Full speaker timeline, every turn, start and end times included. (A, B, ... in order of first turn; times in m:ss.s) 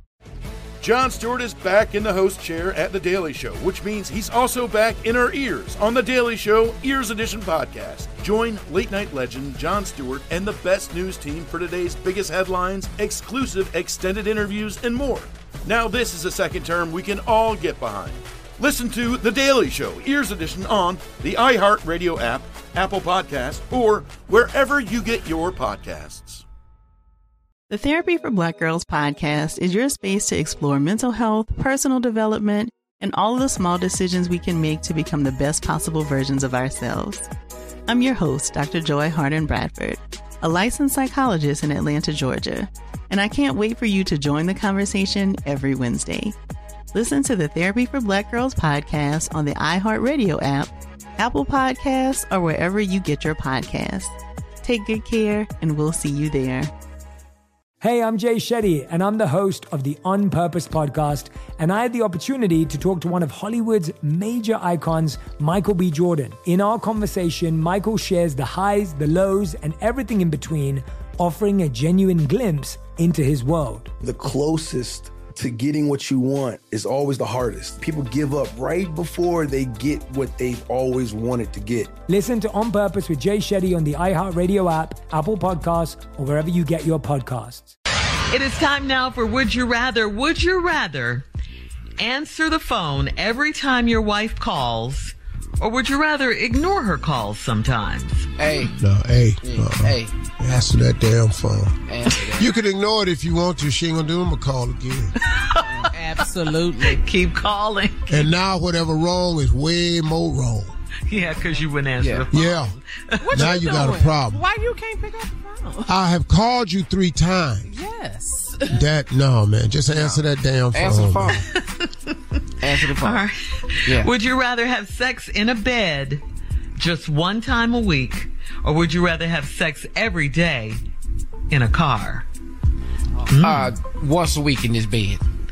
0:00.8-0:26.4 A
0:27.7-0:37.2 B
0:37.9-0:46.3 B
0:46.9-0:56.7 B
0:57.8-1:13.9 C
1:14.0-1:21.9 D
1:22.1-1:27.7 C
1:28.3-1:31.2 E
1:32.0-1:38.6 E
1:38.4-1:38.7 F
1:38.8-1:41.7 G
1:39.4-1:40.2 F
1:41.9-1:42.5 F
1:42.4-1:45.1 G
1:45.2-1:45.8 E
1:45.9-1:47.0 H
1:46.8-1:48.3 E
1:48.1-1:50.7 G
1:51.1-1:53.5 E
1:52.0-1:52.3 F
1:52.3-1:52.7 G
1:53.2-1:55.9 H
1:53.3-1:54.4 G
1:55.9-1:57.7 G
1:57.7-1:58.8 H
1:58.7-2:01.4 G
2:00.7-2:01.4 F
2:01.4-2:02.2 E
2:02.6-2:03.3 F
2:02.7-2:06.2 E
2:03.8-2:04.1 F
2:06.8-2:10.8 E
2:11.5-2:12.2 E
2:13.3-2:13.7 E
2:13.3-2:15.2 F